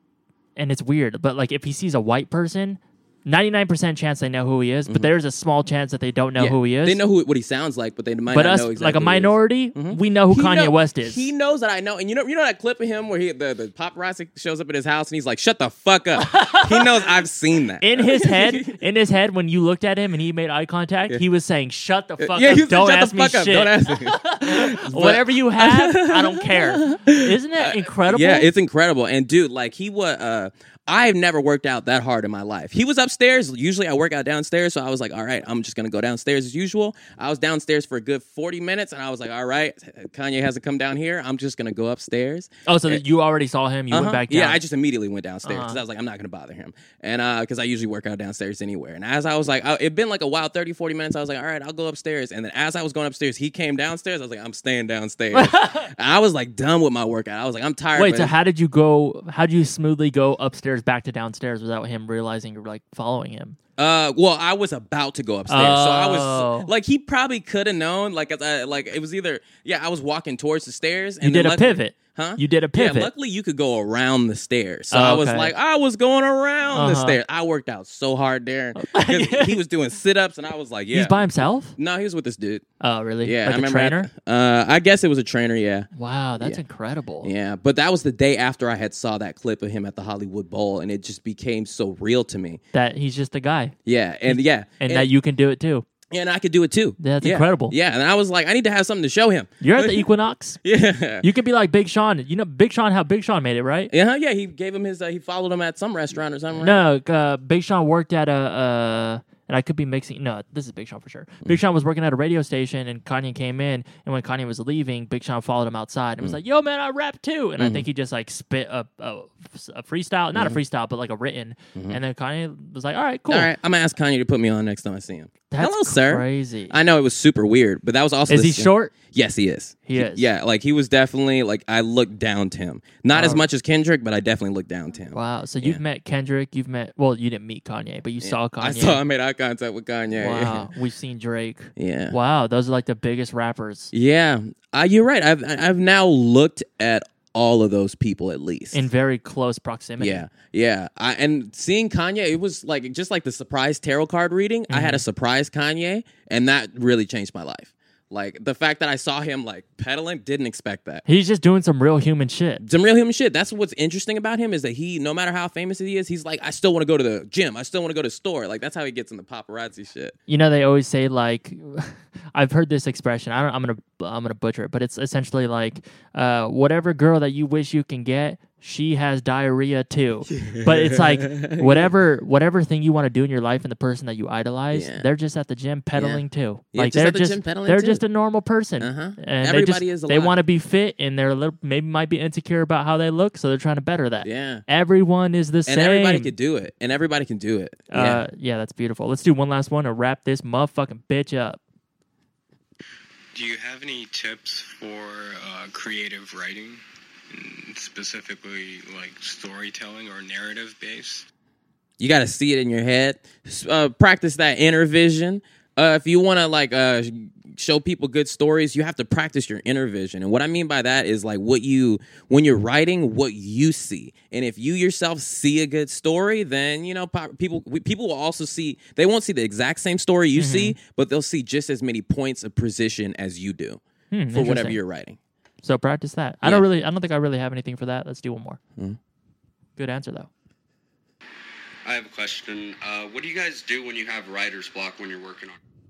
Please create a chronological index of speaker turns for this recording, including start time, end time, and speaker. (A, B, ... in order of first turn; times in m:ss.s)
0:00.6-0:07.0 A
0:06.4-0:18.7 B
0:08.3-0:11.3 A
0:16.2-0:17.0 A
0:17.8-0:28.5 A
0:22.2-0:43.0 B
0:42.6-0:44.6 A
0:43.9-0:58.3 B
0:45.4-0:45.8 A
0:55.3-0:55.9 A
0:57.9-1:03.6 A
1:03.8-1:22.6 B
1:05.5-1:06.7 A
1:11.2-1:13.1 A
1:14.9-1:15.5 A
1:16.7-1:17.2 A
1:18.8-1:19.6 A
1:20.9-1:21.8 A
1:22.8-1:24.1 A
1:23.2-1:25.9 B
1:26.0-1:27.3 A
1:27.2-1:32.6 B
1:32.7-1:35.8 A
1:33.8-1:35.1 B
1:36.1-1:40.1 B
1:37.0-1:37.7 A
1:39.6-1:40.6 A
1:40.6-1:41.2 B
1:41.2-1:43.9 A
1:43.9-1:46.8 B
1:46.6-2:03.5 A
1:57.6-1:57.8 B
2:03.3-2:15.8 B
2:05.5-2:06.7 A
2:08.3-2:08.9 A
2:09.8-2:10.3 A
2:13.1-2:13.5 A
2:15.1-2:19.0 A
2:18.2-2:20.7 B
2:20.1-2:23.9 A
2:21.8-2:22.2 B
2:23.9-2:28.8 B
2:28.7-2:30.2 A
2:30.0-2:41.0 B
2:34.7-2:35.0 A
2:41.0-2:42.6 A
2:42.6-2:50.2 B
2:50.3-3:16.3 A
3:00.3-3:01.9 B
3:04.7-3:05.1 B
3:05.9-3:08.0 B
3:08.8-3:10.4 B
3:14.2-3:14.6 B
3:15.6-3:18.2 B
3:17.9-3:21.6 A
3:23.3-3:31.3 C
3:32.0-3:55.2 B
3:50.4-3:50.8 A
3:54.1-3:54.8 A
3:55.6-3:58.6 A
3:59.8-4:00.3 A
4:01.8-4:05.6 D